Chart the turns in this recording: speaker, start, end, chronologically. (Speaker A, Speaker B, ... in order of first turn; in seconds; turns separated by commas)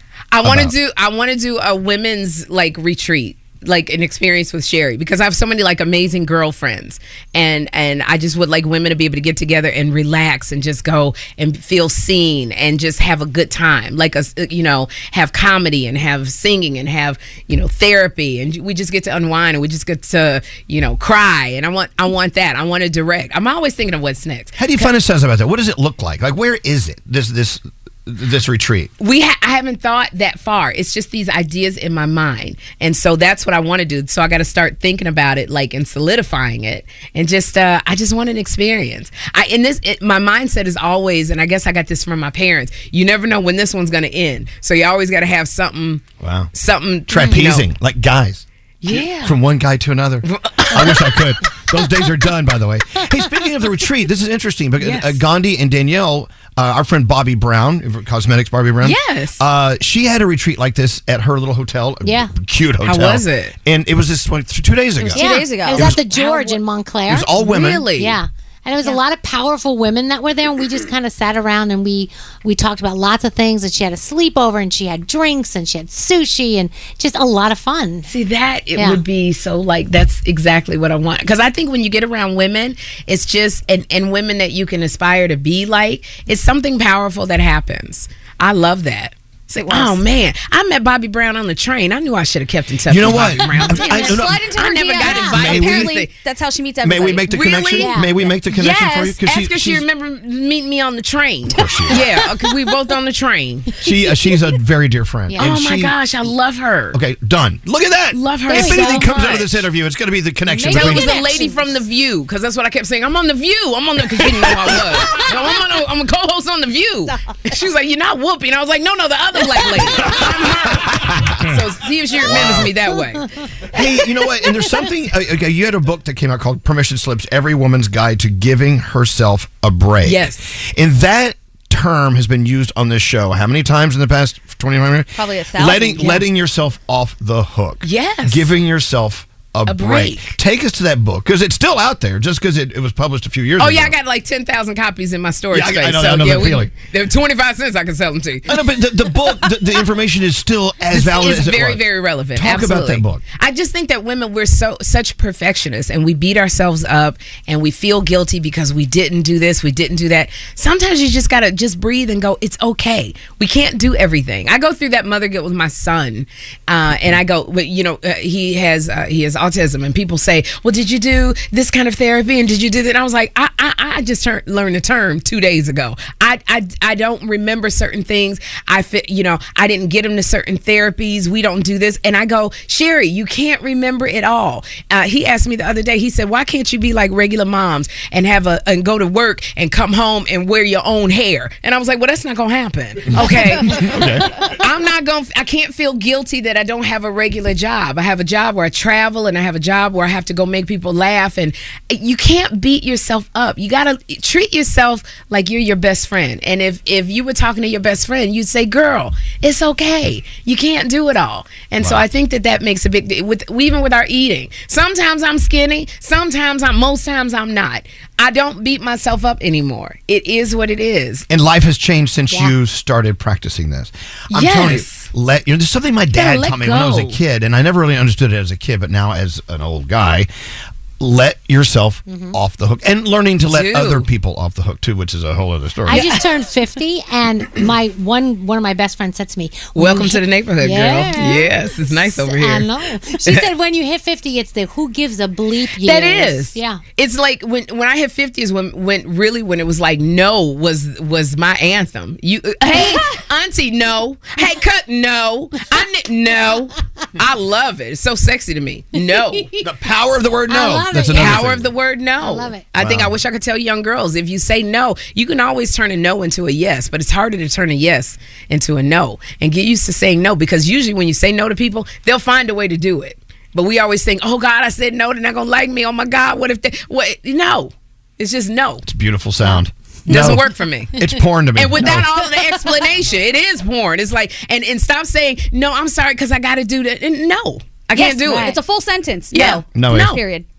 Speaker A: 0.3-24.9, Speaker B: 0.4-0.7, Speaker B: 24.6-28.9, Speaker A: 29.0-47.7, Speaker B: 46.2-46.5, Speaker B: 47.1-66.1, Speaker A: 48.8-49.4, Speaker A: 50.2-51.3, Speaker A: 54.8-55.2, Speaker A: 58.8-59.4, Speaker C: 62.0-62.3, Speaker A: 62.8-63.5, Speaker D: 65.0-66.4, Speaker C: 65.2-78.1, Speaker B: 67.1-67.9, Speaker A: 67.4-68.2, Speaker A: 78.1-96.1, Speaker C: 78.8-79.0, Speaker D: 89.6-90.0, Speaker B: 92.9-94.4, Speaker D: 93.7-97.9, Speaker C: 95.0-95.4, Speaker B: 95.3-95.9, Speaker B: 96.8-99.8, Speaker A: 97.3-98.0, Speaker C: 97.7-98.2, Speaker A: 98.5-103.7, Speaker B: 101.5-102.1, Speaker B: 103.8-106.0, Speaker C: 105.3-105.5, Speaker A: 105.4-107.0, Speaker B: 106.9-111.2, Speaker A: 108.1-109.6, Speaker C: 108.5-109.4, Speaker C: 110.5-111.8, Speaker A: 110.6-123.2, Speaker B: 122.2-122.8, Speaker B: 123.7-143.9, Speaker A: 130.0-130.4, Speaker D: 135.2-136.2, Speaker A: 136.0-136.2, Speaker A: 137.8-138.5, Speaker A: 139.7-140.3, Speaker A: 143.6-148.6, Speaker B: 145.5-146.7, Speaker B: 148.5-153.2, Speaker A: 150.9-221.2, Speaker B: 193.1-194.3, Speaker B: 221.3-230.3, Speaker A: 224.3-225.1, Speaker A: 226.1-227.2, Speaker B: 231.0-236.1, Speaker C: 232.1-232.4, Speaker A: 233.5-234.1, Speaker C: 235.9-246.8, Speaker A: 239.8-242.7, Speaker A: 243.2-243.5, Speaker A: 245.8-259.5, Speaker C: 258.9-259.5, Speaker B: 259.6-261.7, Speaker C: 260.5-262.7, Speaker A: 261.1-278.8, Speaker B: 262.8-263.1, Speaker B: 278.9-282.1, Speaker A: 280.1-288.5, Speaker D: 287.9-290.5, Speaker C: 288.0-288.5, Speaker A: 289.3-290.2, Speaker B: 289.7-290.2